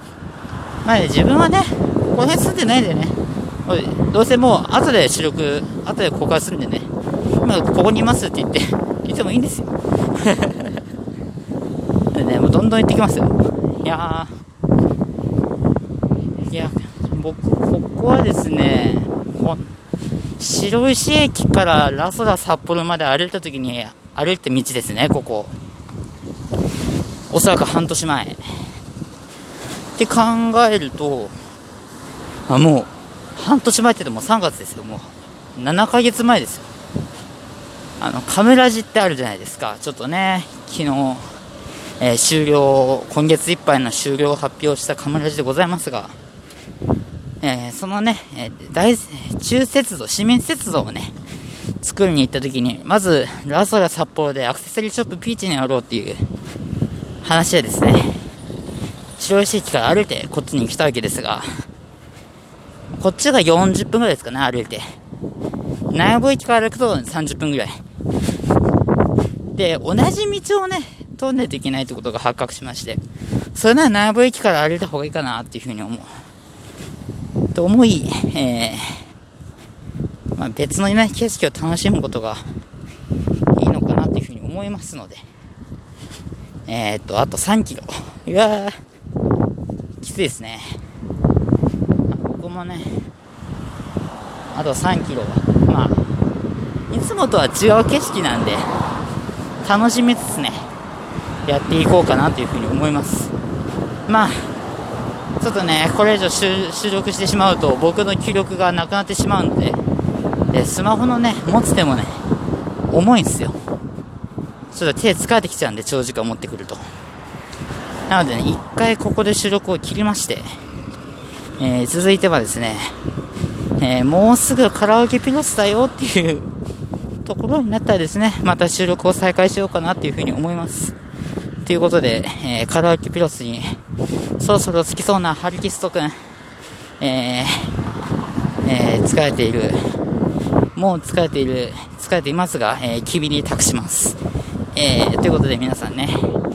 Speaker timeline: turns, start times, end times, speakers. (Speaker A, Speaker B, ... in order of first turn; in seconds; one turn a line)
Speaker A: 0.8-6.9
Speaker A: 7.4-10.8
Speaker A: 12.1-14.3
Speaker A: 16.4-19.7
Speaker A: 20.4-25.5
Speaker A: 27.3-28.7
Speaker A: 30.0-31.4
Speaker A: 32.5-36.7
Speaker A: 38.0-41.3
Speaker A: 42.0-46.1
Speaker A: 47.4-51.1
Speaker A: 51.8-56.2
Speaker A: 57.2-58.2
Speaker A: 59.2-61.5
Speaker A: 63.0-64.8
Speaker A: 65.9-67.8
Speaker A: 69.5-73.0
Speaker A: 73.5-76.1
Speaker A: 77.5-79.0
Speaker A: 80.3-82.4
Speaker A: 83.5-85.2
Speaker A: 86.7-88.8
Speaker A: 90.0-90.8
Speaker A: 92.1-93.0
Speaker A: 94.5-96.0
Speaker A: 96.9-98.7
Speaker A: 99.6-100.7
Speaker A: 101.5-103.3
Speaker A: 104.1-104.5
Speaker A: 105.4-109.8
Speaker A: 110.5-112.2
Speaker A: 112.9-113.6
Speaker A: 114.7-116.8
Speaker A: 118.1-120.5
Speaker A: 121.6-123.0
Speaker A: 123.8-126.5
Speaker A: 127.2-130.9
Speaker A: 131.6-133.8
Speaker A: 134.4-136.2
Speaker A: 137.0-137.7
Speaker A: 138.6-139.8
Speaker A: 140.7-144.2
Speaker A: 144.7-146.4